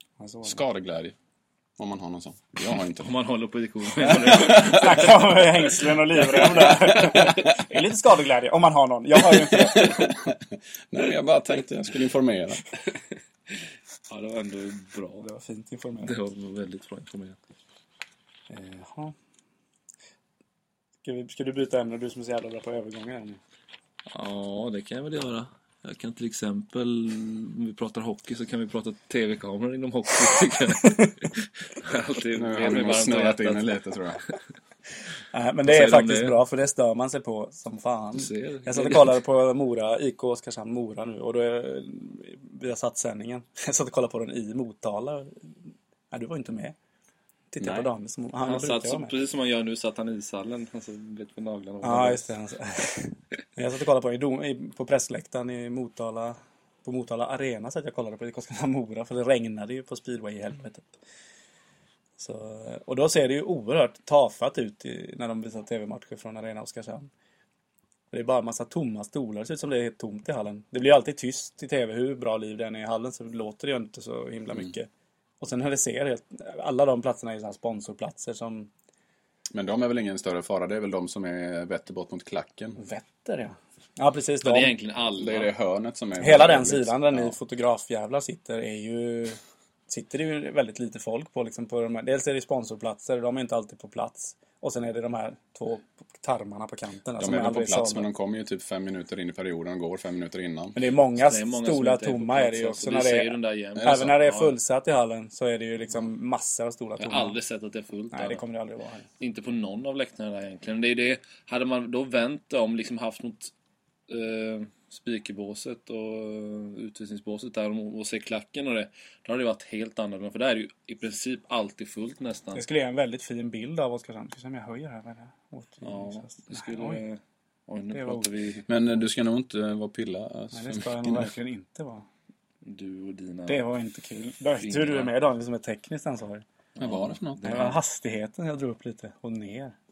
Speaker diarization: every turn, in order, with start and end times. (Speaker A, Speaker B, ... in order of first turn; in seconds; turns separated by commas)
Speaker A: 0.2-0.6, Speaker B: 0.4-1.1, Speaker B: 1.8-3.1, Speaker C: 3.0-5.4, Speaker B: 4.0-5.1, Speaker A: 4.3-10.1, Speaker B: 6.7-7.5, Speaker B: 9.3-12.6, Speaker C: 14.1-15.2, Speaker A: 15.2-16.1, Speaker C: 16.0-17.4, Speaker A: 18.5-19.1, Speaker A: 21.0-23.4, Speaker C: 24.1-33.8, Speaker A: 30.8-31.1, Speaker B: 32.3-34.2, Speaker A: 35.3-45.5, Speaker C: 35.6-36.4, Speaker C: 38.1-39.2, Speaker A: 46.1-46.7, Speaker A: 47.5-49.1, Speaker B: 47.6-47.9, Speaker C: 48.4-52.3, Speaker A: 51.8-61.0, Speaker A: 62.2-67.1, Speaker A: 68.1-74.9, Speaker A: 75.4-78.7, Speaker B: 79.5-82.8, Speaker A: 82.8-84.7, Speaker C: 84.4-85.5, Speaker B: 85.2-87.4, Speaker A: 86.2-98.1, Speaker B: 97.2-100.8, Speaker A: 100.7-107.4, Speaker C: 101.2-104.5, Speaker B: 103.8-104.0, Speaker C: 107.0-108.4, Speaker A: 108.1-109.0, Speaker C: 109.2-113.5, Speaker C: 114.1-122.6, Speaker A: 122.5-127.0, Speaker C: 125.8-128.7, Speaker A: 127.9-128.3, Speaker B: 128.7-131.3, Speaker A: 130.5-132.1, Speaker C: 132.6-133.7, Speaker A: 133.5-136.4, Speaker C: 134.6-135.1, Speaker C: 136.8-137.8, Speaker B: 136.8-137.7, Speaker A: 137.4-139.7